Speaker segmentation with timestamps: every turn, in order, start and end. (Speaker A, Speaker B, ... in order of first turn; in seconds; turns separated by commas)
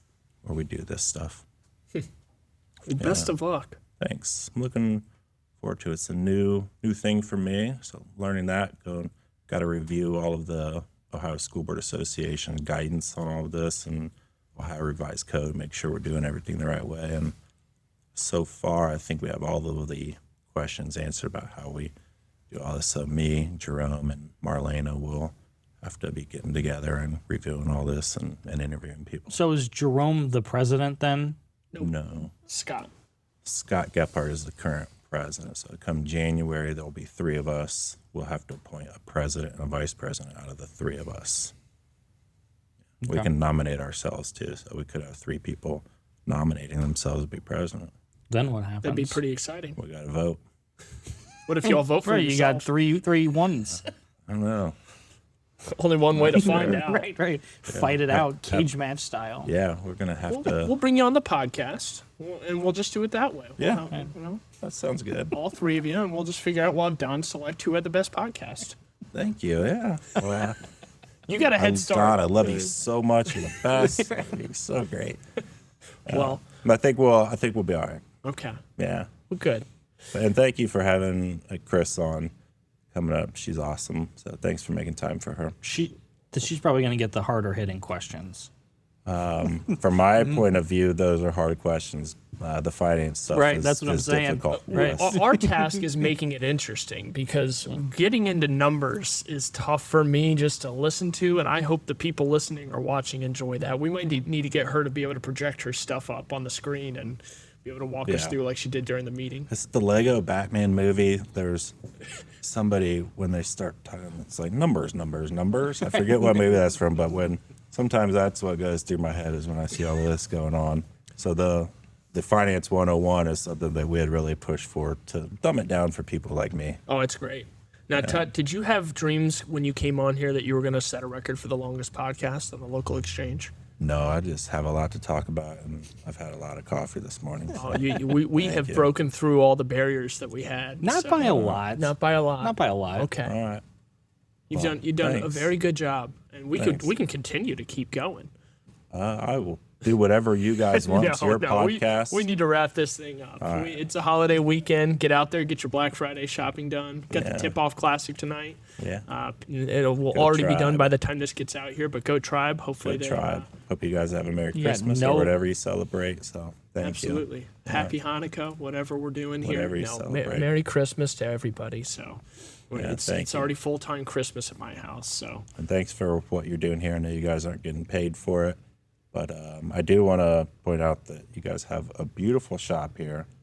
Speaker A: 0.4-1.5, Speaker B: 2.9-3.8, Speaker A: 3.0-3.3, Speaker A: 4.0-5.1, Speaker A: 5.6-17.4, Speaker A: 18.1-21.9, Speaker A: 22.5-29.4, Speaker C: 29.3-31.4, Speaker A: 31.8-32.4, Speaker B: 32.5-32.9, Speaker A: 33.5-41.5, Speaker A: 43.0-47.9, Speaker C: 48.3-49.2, Speaker B: 48.8-49.8, Speaker A: 49.8-50.4, Speaker B: 51.5-52.7, Speaker C: 51.9-53.9, Speaker A: 54.3-54.8, Speaker B: 55.7-57.1, Speaker A: 56.1-56.8, Speaker C: 56.3-59.5, Speaker A: 57.7-58.7, Speaker A: 59.5-60.8, Speaker B: 60.3-64.4, Speaker A: 63.6-63.9, Speaker A: 64.6-65.3, Speaker B: 65.3-68.8, Speaker A: 69.1-70.6, Speaker B: 71.3-72.7, Speaker A: 71.6-75.2, Speaker A: 76.1-78.0, Speaker B: 76.1-76.4, Speaker B: 78.2-78.6, Speaker A: 78.8-79.1, Speaker B: 79.3-79.7, Speaker A: 80.1-82.3, Speaker A: 82.9-85.6, Speaker C: 85.6-88.5, Speaker A: 89.1-95.1, Speaker C: 93.3-95.8, Speaker B: 94.7-109.5, Speaker A: 108.0-108.3, Speaker A: 109.5-111.8, Speaker A: 112.4-126.8, Speaker B: 126.9-133.5, Speaker A: 128.0-128.3, Speaker A: 133.8-138.9, Speaker B: 137.6-143.3, Speaker C: 140.8-143.1, Speaker A: 141.2-141.6, Speaker A: 143.2-143.6, Speaker B: 144.5-148.3, Speaker A: 144.5-145.5, Speaker A: 146.5-146.9, Speaker A: 148.9-152.3, Speaker B: 150.7-163.5, Speaker A: 153.4-153.9, Speaker A: 157.1-157.5, Speaker A: 158.8-159.1, Speaker A: 160.1-160.9, Speaker A: 162.8-167.9, Speaker C: 164.5-165.4, Speaker B: 166.8-175.5, Speaker A: 169.4-170.5, Speaker A: 172.7-173.5, Speaker A: 175.6-178.6, Speaker A: 179.1-183.3